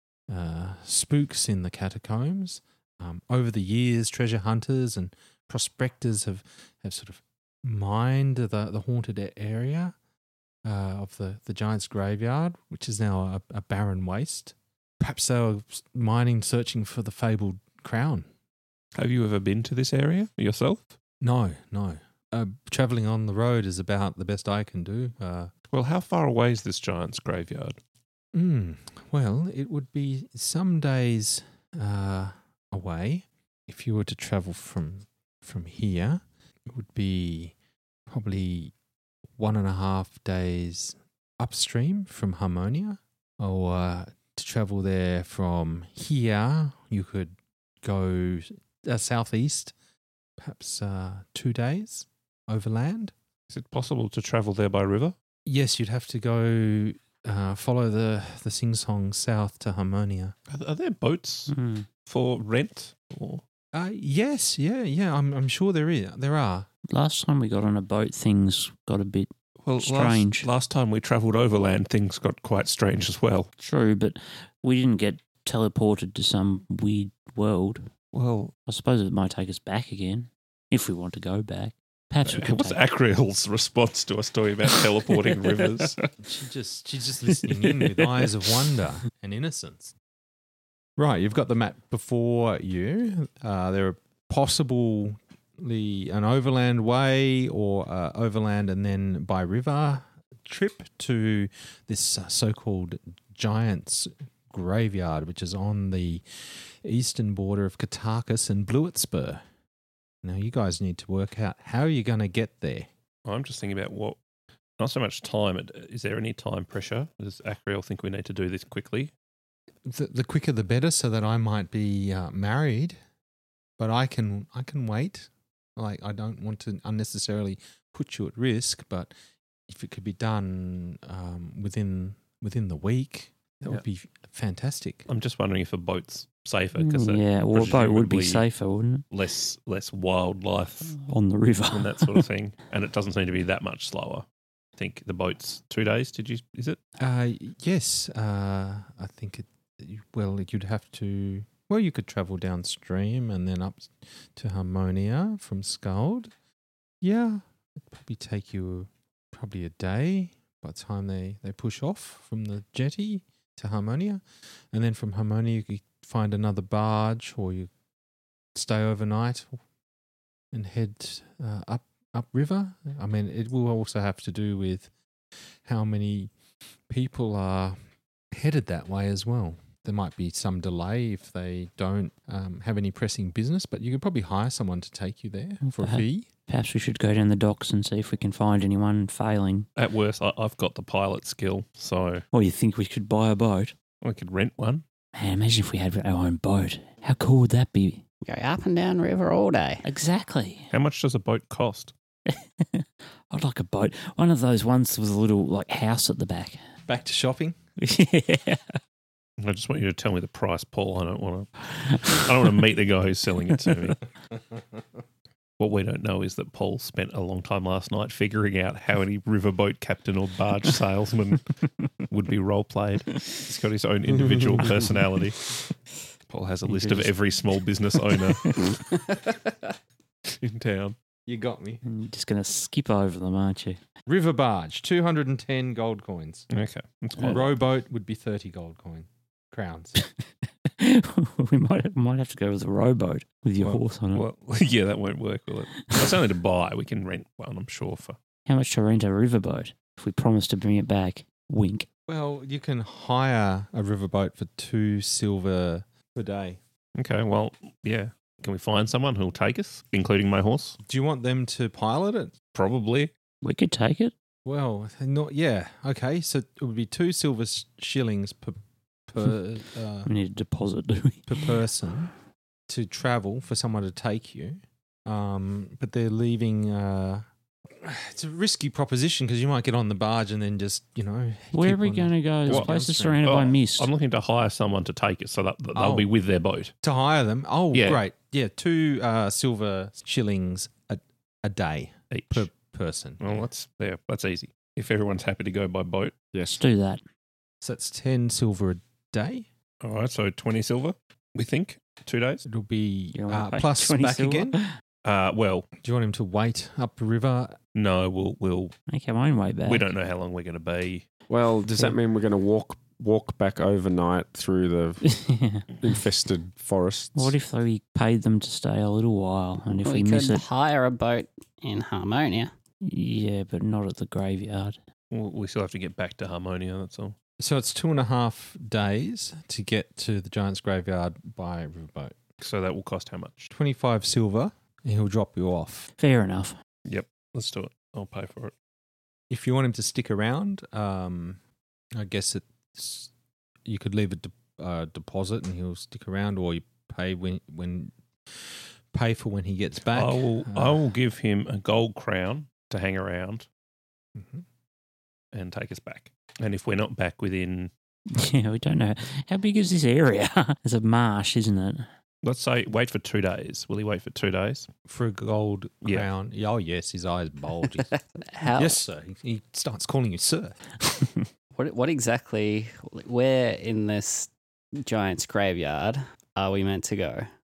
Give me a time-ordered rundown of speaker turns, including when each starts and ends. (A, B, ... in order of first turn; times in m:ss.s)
0:00.3-0:09.9 A
0:10.6-0:18.3 A
0:19.0-0:20.9 B
0:21.2-0:25.5 A
0:25.7-0:27.8 B
0:28.3-0:37.5 A
0:38.1-0:38.7 A
0:39.4-0:49.7 A
0:50.4-0:53.1 A
0:53.5-0:55.1 B
0:55.4-1:00.3 A
1:00.5-1:01.5 B
1:01.5-1:01.9 C
1:02.0-1:03.4 B
1:03.7-1:06.7 A
1:06.9-1:10.5 C
1:09.6-1:13.5 B
1:13.6-1:17.9 C
1:18.1-1:18.5 B
1:18.7-1:22.8 C
1:22.2-1:26.0 B
1:26.2-1:29.9 A
1:31.0-1:49.4 A
1:50.2-1:52.9 A
1:53.2-1:54.2 B
1:54.8-1:59.1 B
1:59.8-2:03.0 A
2:03.8-2:09.1 A
2:09.7-2:15.1 A
2:15.1-2:18.4 B
2:16.8-2:19.0 C
2:19.1-2:20.9 B
2:20.9-2:22.2 C
2:21.7-2:24.2 B
2:24.8-2:26.8 B
2:27.0-2:36.3 A
2:37.0-2:47.7 A
2:48.5-2:49.6 A
2:50.5-2:54.9 A
2:55.6-2:56.3 A
2:56.9-2:57.8 A
2:58.3-3:06.3 A
3:05.6-3:09.7 C
3:09.8-3:12.2 B
3:12.3-3:13.7 C
3:14.0-3:14.8 B
3:15.1-3:18.0 C
3:18.2-3:19.8 D
3:19.8-3:20.7 C
3:20.7-3:21.9 B
3:22.3-3:26.6 C
3:26.9-3:27.6 A
3:27.8-3:28.8 C
3:29.4-3:34.0 B
3:31.7-3:32.3 C
3:35.6-3:41.5 B
3:42.1-3:45.6 B
3:44.2-3:44.7 E
3:46.3-3:49.0 B
3:46.7-3:47.1 C
3:48.4-3:48.7 C
3:50.2-3:51.0 B
3:51.2-3:51.8 A
3:51.8-3:53.8 C
3:54.0-3:56.4 A
3:56.5-3:57.5 B
3:57.2-4:00.0 A
4:00.0-4:04.2 C
4:03.6-4:08.2 B
4:08.5-4:11.9 C
4:12.1-4:16.6 A
4:17.0-4:20.8 B
4:20.8-4:22.3 A
4:22.5-4:23.1 B
4:23.4-4:24.1 C
4:24.4-4:30.1 A
4:30.0-4:31.6 C
4:31.3-4:32.1 A
4:32.7-4:43.2 A
4:41.5-4:43.9 C
4:43.2-4:46.7 B
4:45.7-4:46.1 A
4:46.8-4:53.4 A
4:47.7-4:48.0 B
4:52.1-4:52.5 B
4:53.2-4:56.1 B
4:56.5-4:57.0 C
4:57.6-4:59.4 A
4:59.8-5:02.4 B
5:02.4-5:04.6 A
5:03.1-5:04.8 C
5:05.0-5:05.7 B
5:05.8-5:07.6 A
5:07.7-5:08.7 B
5:08.9-5:09.8 C
5:09.7-5:11.0 B
5:11.3-5:15.1 E
5:15.0-5:15.9 C
5:15.8-5:17.3 E
5:17.1-5:20.4 C
5:19.8-5:22.5 D
5:22.8-5:24.8 C
5:25.1-5:27.2 B
5:27.4-5:32.2 A
5:32.4-5:33.5 B
5:33.5-5:35.9 A
5:36.0-5:36.6 C
5:36.8-5:38.5 B
5:39.3-5:41.4 A
5:41.9-5:43.1 A
5:43.6-5:50.8 A
5:49.9-5:53.4 B
5:54.2-5:54.4 A
5:55.3-5:57.7 B
5:58.1-6:01.9 C
6:02.2-6:04.7 B
6:04.8-6:07.9 A
6:08.2-6:08.8 D
6:08.5-6:10.6 A
6:11.5-6:17.3 D